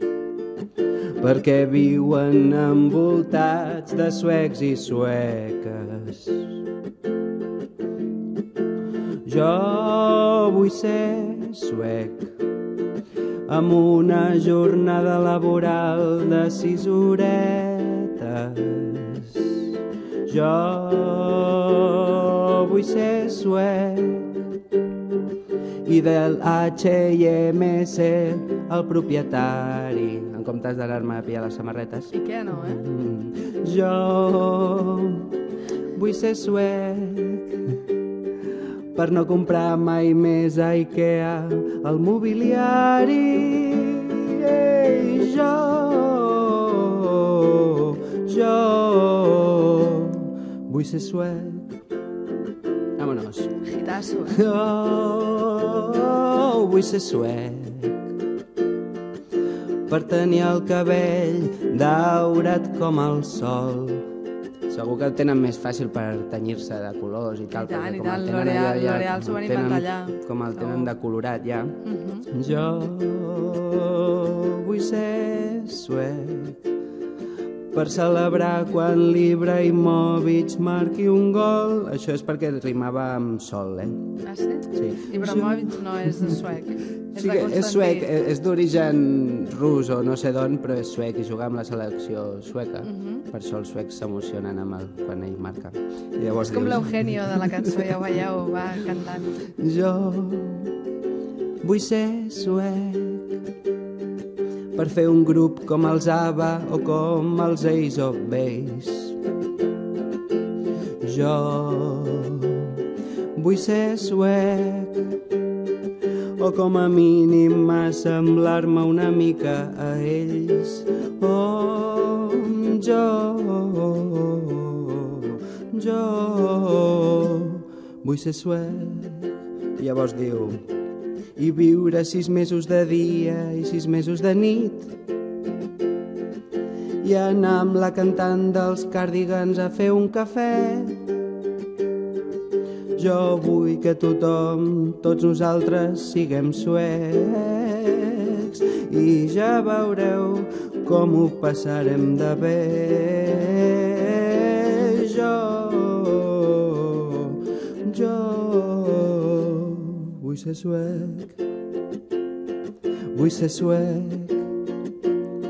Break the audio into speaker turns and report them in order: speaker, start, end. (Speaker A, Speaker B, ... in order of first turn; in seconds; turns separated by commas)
Speaker A: 1.2-6.6, Speaker A: 9.2-12.3, Speaker A: 13.5-19.7, Speaker A: 20.3-24.3, Speaker A: 25.9-35.3, Speaker B: 32.1-32.9, Speaker A: 35.9-37.6, Speaker A: 38.9-51.8, Speaker A: 53.0-53.6, Speaker B: 53.6-54.4, Speaker A: 54.2-58.1, Speaker A: 59.9-64.1, Speaker A: 64.7-76.7, Speaker B: 67.5-70.9, Speaker B: 71.8-72.3, Speaker A: 77.7-84.2, Speaker B: 84.2-88.1, Speaker A: 84.7-86.4, Speaker A: 87.0-98.0, Speaker B: 92.8-93.2, Speaker B: 96.4-99.4, Speaker A: 99.4-100.7, Speaker A: 101.6-103.4, Speaker A: 104.7-109.2, Speaker A: 111.0-112.8, Speaker A: 113.3-115.1, Speaker A: 116.4-130.6, Speaker A: 131.4-135.0, Speaker A: 137.0-141.0, Speaker A: 143.0-161.4, Speaker A: 163.1-164.5